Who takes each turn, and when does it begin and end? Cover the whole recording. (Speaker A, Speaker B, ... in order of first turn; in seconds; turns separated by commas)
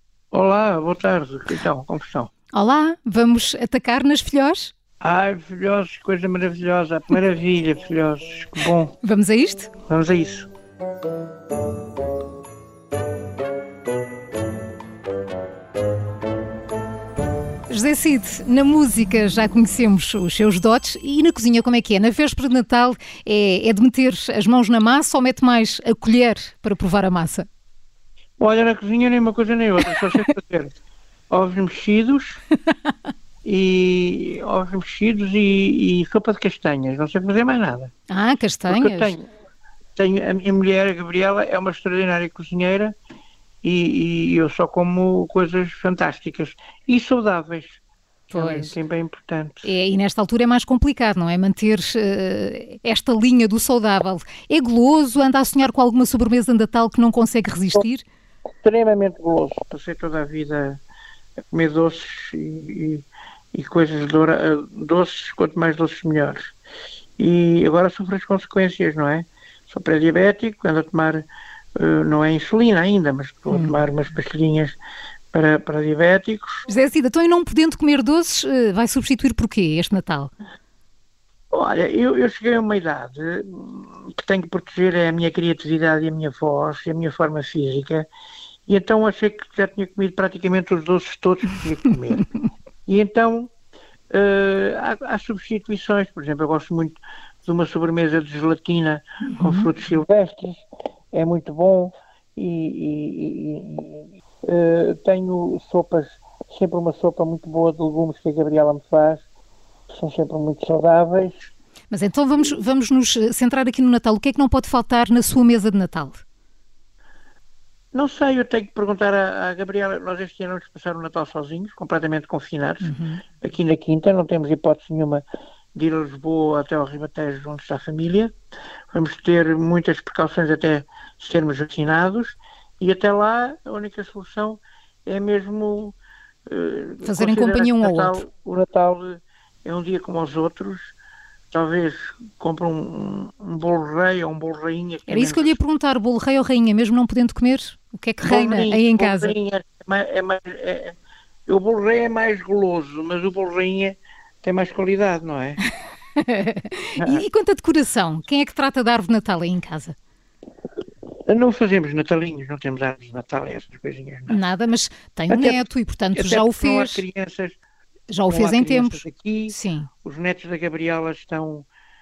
Speaker A: 0.3-2.3, Speaker B: 2.5-4.7, Speaker A: 5.0-8.9, Speaker B: 9.0-9.7, Speaker A: 9.9-10.5, Speaker B: 17.7-27.5, Speaker A: 28.4-30.7, Speaker A: 31.3-32.4, Speaker A: 33.4-37.9, Speaker B: 38.1-39.1, Speaker A: 38.7-39.2, Speaker A: 40.0-42.9, Speaker A: 43.6-49.7, Speaker B: 48.3-48.8, Speaker B: 49.6-58.0, Speaker A: 58.6-60.8, Speaker A: 61.5-66.5, Speaker A: 67.2-71.2, Speaker A: 71.8-74.8, Speaker B: 73.5-73.9, Speaker A: 75.3-76.6, Speaker B: 76.7-80.3, Speaker A: 81.5-88.1, Speaker A: 88.7-92.3, Speaker A: 92.8-93.5, Speaker A: 94.1-109.2, Speaker B: 99.2-99.7, Speaker A: 109.9-111.5, Speaker B: 111.9-116.2, Speaker A: 117.9-125.2, Speaker B: 122.8-123.2, Speaker A: 125.7-128.3, Speaker A: 128.9-136.0, Speaker A: 136.5-140.9, Speaker B: 137.0-138.2, Speaker A: 141.5-145.6, Speaker B: 145.1-149.3, Speaker A: 148.2-150.9, Speaker A: 151.5-155.6, Speaker B: 156.2-159.9, Speaker A: 157.0-157.2, Speaker A: 161.3-164.4, Speaker B: 164.3-167.0, Speaker A: 165.3-167.6, Speaker B: 168.1-169.9, Speaker A: 168.3-171.7